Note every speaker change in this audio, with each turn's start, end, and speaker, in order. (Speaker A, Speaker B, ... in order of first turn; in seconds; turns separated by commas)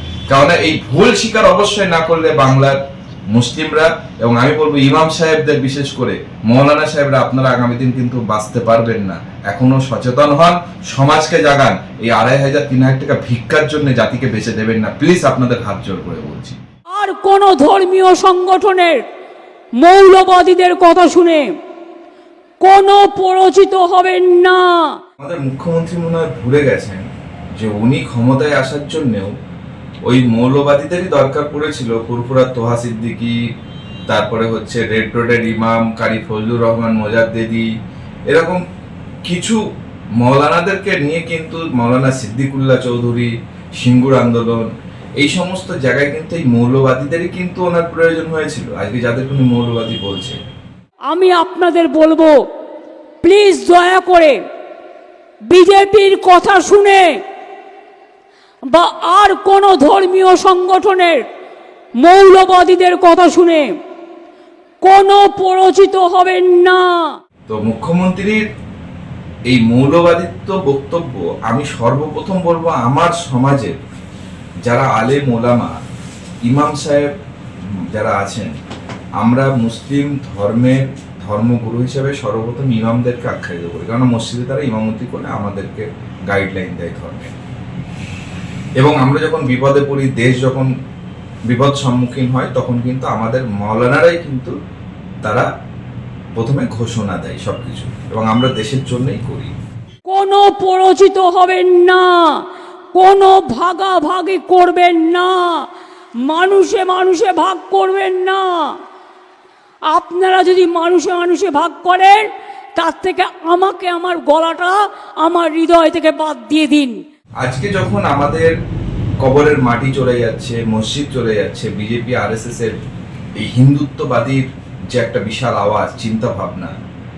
Speaker A: 0.3-2.8, Speaker A: 3.3-16.6, Speaker B: 16.9-19.0, Speaker B: 19.8-21.5, Speaker B: 22.6-25.0, Speaker A: 25.2-29.3, Speaker A: 30.1-33.4, Speaker A: 34.1-37.7, Speaker A: 38.3-38.6, Speaker A: 39.2-39.6, Speaker A: 40.2-50.4, Speaker B: 51.1-52.3, Speaker B: 53.2-54.4, Speaker B: 55.5-57.2, Speaker B: 58.7-61.2, Speaker B: 62.0-63.7, Speaker B: 64.8-67.2, Speaker A: 67.5-68.4, Speaker A: 69.5-73.8, Speaker A: 74.7-75.8, Speaker A: 76.5-77.1, Speaker A: 77.9-78.5, Speaker A: 79.2-87.3, Speaker A: 88.8-90.7, Speaker A: 91.5-94.5, Speaker A: 96.3-99.5, Speaker B: 100.1-105.7, Speaker B: 106.2-108.8, Speaker B: 109.9-117.0, Speaker A: 117.4-118.5, Speaker A: 119.2-122.7, Speaker A: 123.4-126.7